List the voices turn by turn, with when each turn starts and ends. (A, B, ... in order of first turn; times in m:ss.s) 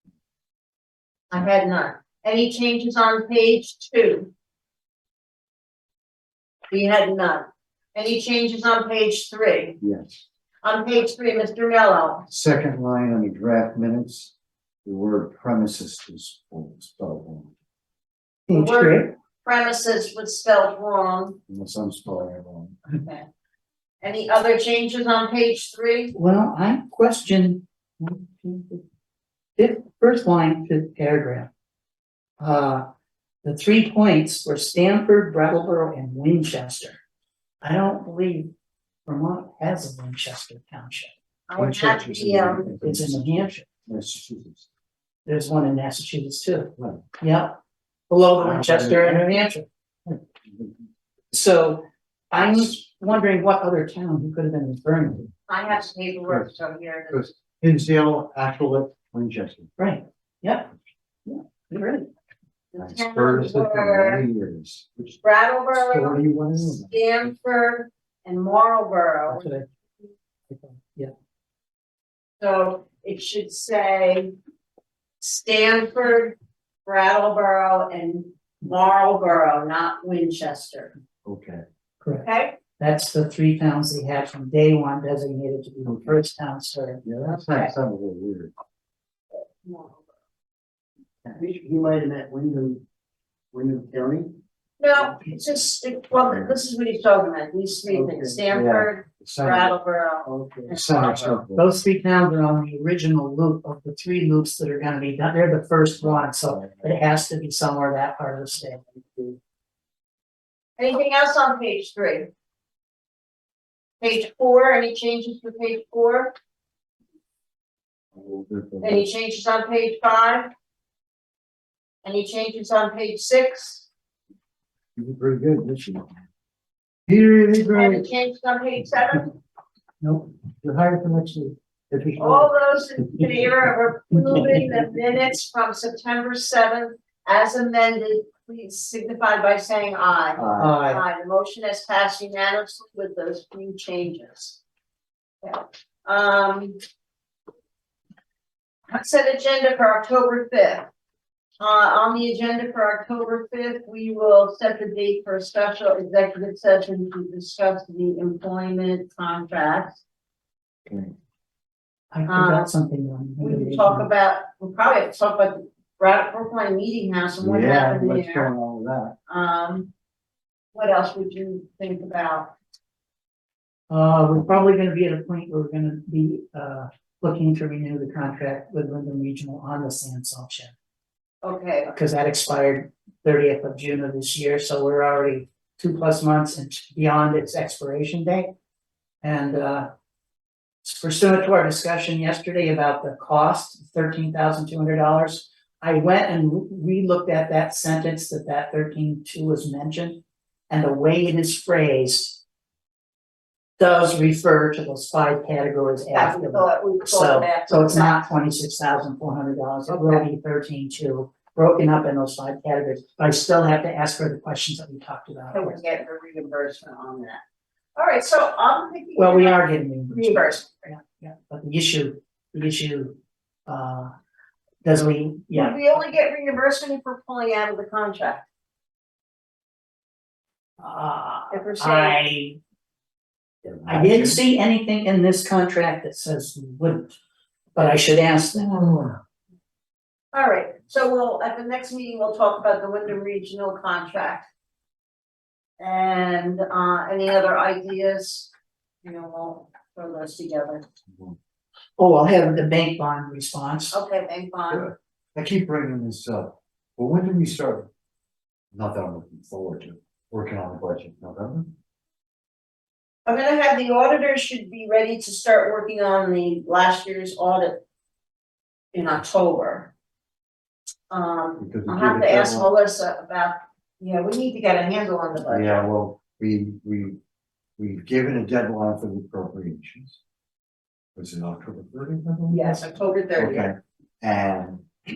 0:01.3-0:04.3 A
0:06.7-0:09.8 A
0:09.8-0:10.2 B
0:10.6-0:12.3 A
0:12.3-0:14.3 B
0:14.8-0:17.5 B
0:18.5-0:19.1 C
0:18.5-0:21.4 A
0:21.5-0:22.8 B
0:22.9-0:23.3 A
0:24.0-0:26.1 A
0:26.1-0:28.8 C
0:29.6-0:31.5 C
0:32.4-0:32.8 C
0:33.4-0:37.0 C
0:37.6-0:38.5 C
0:39.1-0:41.1 C
0:41.5-0:42.7 A
0:41.6-0:44.7 B
0:42.8-0:43.7 C
0:45.3-0:49.7 C
0:46.8-0:47.0 B
0:48.4-0:49.4 B
0:51.3-0:55.3 C
0:55.5-0:57.4 A
0:57.1-0:59.7 B
0:59.8-1:00.7 C
1:01.3-1:02.1 C
1:02.7-1:04.2 A
1:02.8-1:05.2 B
1:05.2-1:09.5 A
1:05.7-1:07.0 B
1:09.3-1:09.6 C
1:10.5-1:11.1 C
1:12.4-1:14.3 A
1:15.2-1:20.9 A
1:21.2-1:21.6 B
1:22.2-1:22.6 A
1:22.8-1:27.0 C
1:27.0-1:28.5 B
1:27.4-1:27.7 A
1:29.3-1:30.1 A
1:31.4-1:32.8 D
1:33.5-1:34.3 D
1:34.8-1:41.4 A
1:38.0-1:41.7 B
1:41.6-1:48.9 C
1:50.8-1:52.3 A
1:54.0-1:56.3 A
1:58.2-1:59.1 B
1:58.8-2:00.5 A
2:02.0-2:03.9 A
2:05.0-2:06.1 B
2:07.1-2:08.1 B
2:07.7-2:09.4 A
2:10.0-2:10.3 C
2:10.6-2:12.5 B
2:12.2-2:24.6 A
2:20.4-2:20.8 B
2:20.6-2:21.0 C
2:25.4-2:26.8 A
2:28.9-2:30.9 A
2:31.6-2:40.0 A
2:42.1-2:44.1 C
2:42.3-2:42.7 A
2:43.4-2:48.5 A
2:47.4-2:49.2 B
2:49.3-2:49.9 A
2:50.7-2:52.5 A
2:53.9-3:00.7 C
3:01.4-3:01.9 A
3:01.9-3:08.5 C
3:09.2-3:09.9 C
3:10.8-3:22.4 C
3:23.8-3:35.8 C
3:26.1-3:28.3 A
3:29.9-3:30.2 A
3:35.5-3:37.4 A
3:38.0-3:40.9 A
3:39.2-3:44.1 C
3:44.8-3:46.0 C
3:45.5-3:48.5 A
3:50.8-3:52.6 C
3:51.5-3:52.2 A
3:53.6-3:54.4 B
3:53.8-3:57.2 C
3:57.8-3:58.9 C
3:58.7-3:59.2 B
4:00.3-4:04.5 A
4:05.8-4:08.5 A
4:09.0-4:10.8 A
4:12.0-4:14.0 C
4:13.9-4:14.9 A
4:14.7-4:17.9 B
4:18.7-4:21.8 B
4:23.3-4:27.8 A
4:28.9-4:29.9 A
4:31.1-4:35.8 A
4:31.6-4:32.7 B
4:35.5-4:37.2 B
4:37.8-4:40.2 B
4:41.2-4:42.7 B
4:42.5-4:43.7 A
4:43.4-4:44.9 B